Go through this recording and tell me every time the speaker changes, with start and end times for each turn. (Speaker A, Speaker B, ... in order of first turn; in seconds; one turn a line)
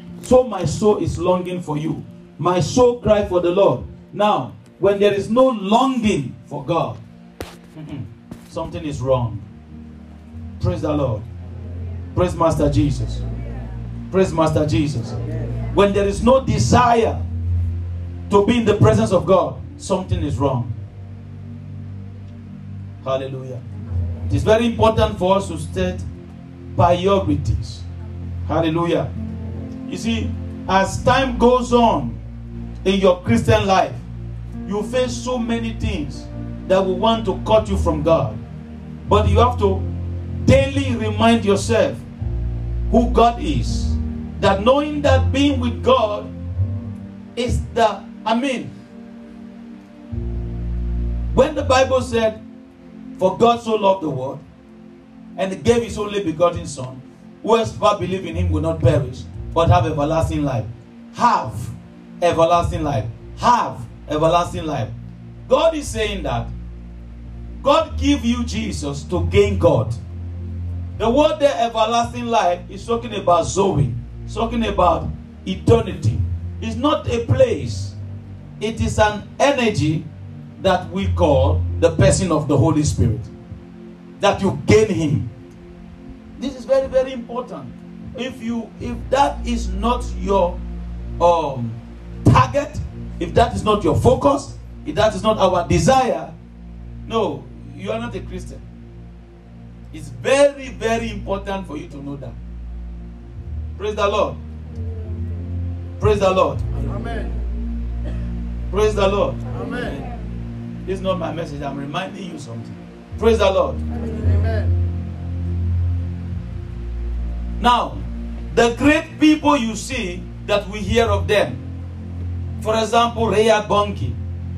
Speaker A: 0.2-7.0
Speaker A: 7.8-9.4
Speaker A: 10.6-11.2
Speaker A: 12.1-13.2
Speaker A: 14.1-15.2
Speaker A: 15.7-17.2
Speaker A: 18.3-20.7
Speaker A: 23.0-23.6
Speaker A: 24.3-26.1
Speaker A: 26.8-27.9
Speaker A: 28.4-29.1
Speaker A: 29.9-32.2
Speaker A: 32.8-34.0
Speaker A: 34.6-38.4
Speaker A: 39.1-39.9
Speaker A: 40.4-42.0
Speaker A: 42.9-46.3
Speaker A: 47.4-48.7
Speaker A: 51.3-52.4
Speaker A: 53.2-54.4
Speaker A: 55.4-64.9
Speaker A: 65.5-66.5
Speaker A: 67.6-70.0
Speaker A: 71.0-78.0
Speaker A: 78.6-80.1
Speaker A: 80.6-83.3
Speaker A: 84.2-85.3
Speaker A: 86.4-90.6
Speaker A: 91.2-96.3
Speaker A: 97.1-98.6
Speaker A: 99.9-102.3
Speaker A: 103.8-104.4
Speaker A: 106.0-107.0
Speaker A: 108.7-109.9
Speaker A: 110.9-113.8
Speaker A: 117.6-121.6
Speaker A: 122.6-124.2